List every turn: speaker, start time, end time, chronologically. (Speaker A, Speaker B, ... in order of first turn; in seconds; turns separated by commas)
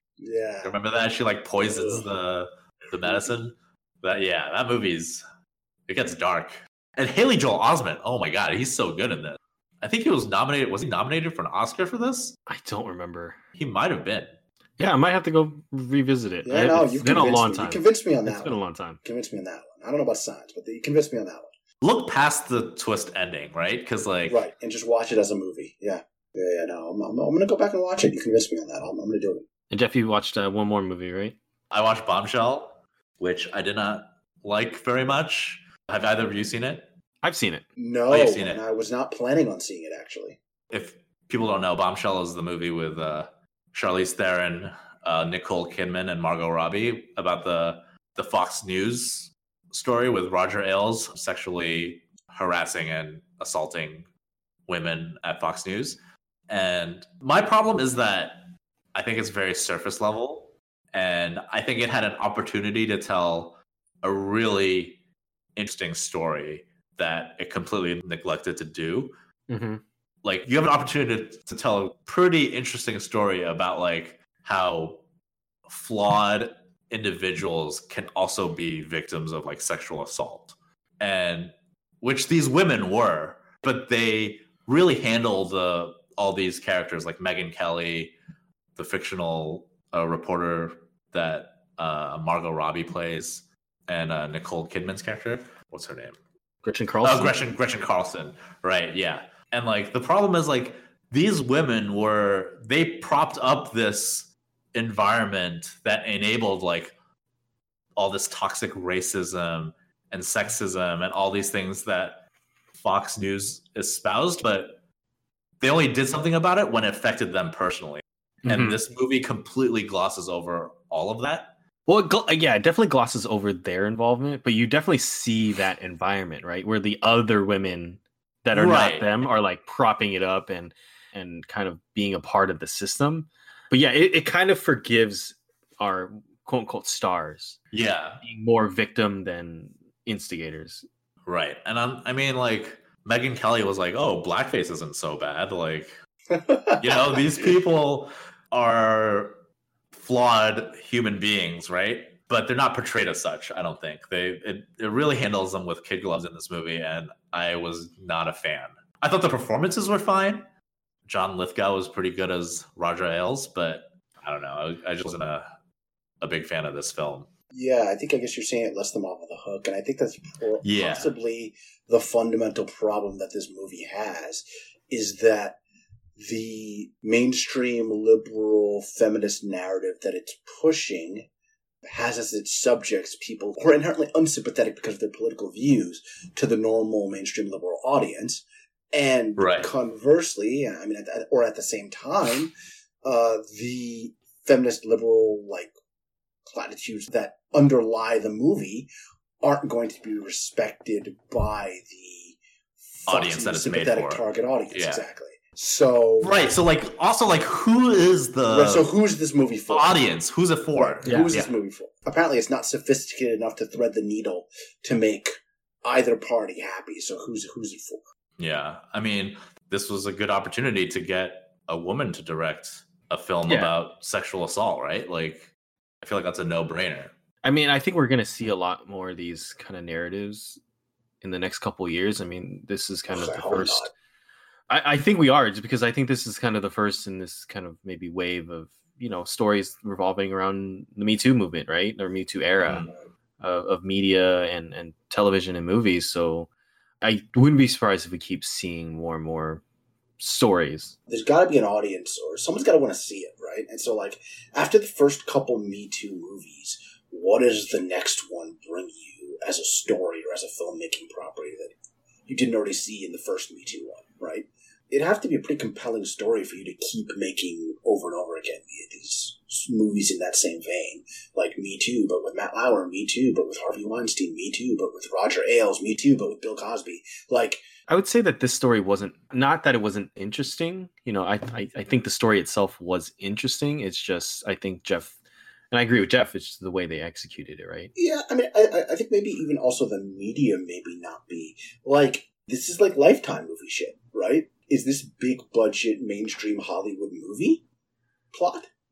Speaker A: 0.2-0.8, Speaker B: 0.6-5.2, Speaker A: 1.6-2.1, Speaker B: 5.9-12.3, Speaker C: 12.5-13.4, Speaker B: 13.6-14.3, Speaker C: 14.8-19.0, Speaker A: 16.4-21.5, Speaker B: 21.8-24.4, Speaker A: 24.2-29.4, Speaker C: 29.7-31.4, Speaker B: 31.7-36.9, Speaker C: 37.2-37.6, Speaker A: 37.8-40.4, Speaker B: 38.1-38.6, Speaker B: 40.7-54.1, Speaker B: 54.7-56.0, Speaker B: 56.5-65.0, Speaker B: 65.5-69.1, Speaker C: 69.5-69.8, Speaker B: 70.2-75.0, Speaker B: 75.7-88.1, Speaker B: 88.8-96.2, Speaker C: 96.6-97.4, Speaker B: 97.0-106.9, Speaker B: 108.0-112.2, Speaker B: 112.8-114.8, Speaker B: 115.6-121.5, Speaker C: 118.4-118.8, Speaker C: 121.9-137.6, Speaker B: 128.5-129.2, Speaker B: 137.7-138.2, Speaker C: 138.2-140.8, Speaker B: 141.2-145.9, Speaker A: 146.3-147.2, Speaker B: 146.8-149.4, Speaker B: 149.9-160.5, Speaker B: 161.1-165.4, Speaker B: 166.2-167.3, Speaker A: 167.5-175.6, Speaker B: 170.6-171.1, Speaker A: 176.2-181.3, Speaker A: 181.8-192.5, Speaker B: 189.4-189.7, Speaker A: 193.0-195.7, Speaker A: 196.4-198.9, Speaker A: 199.4-202.4, Speaker A: 202.9-206.5, Speaker B: 203.1-205.0, Speaker B: 206.2-208.9, Speaker A: 208.5-210.1, Speaker B: 209.7-211.5, Speaker A: 210.8-218.0, Speaker C: 211.0-211.3, Speaker B: 218.4-225.5, Speaker C: 223.5-223.7, Speaker B: 226.0-227.1, Speaker C: 227.4-230.6, Speaker C: 231.2-233.9, Speaker A: 233.1-233.9, Speaker C: 234.7-242.8, Speaker B: 242.6-242.9, Speaker C: 243.4-246.5, Speaker C: 247.0-249.6, Speaker C: 250.2-250.9, Speaker A: 251.1-261.7, Speaker A: 262.3-277.6, Speaker C: 277.9-285.2, Speaker C: 285.7-287.9, Speaker A: 287.9-297.6, Speaker A: 298.3-298.7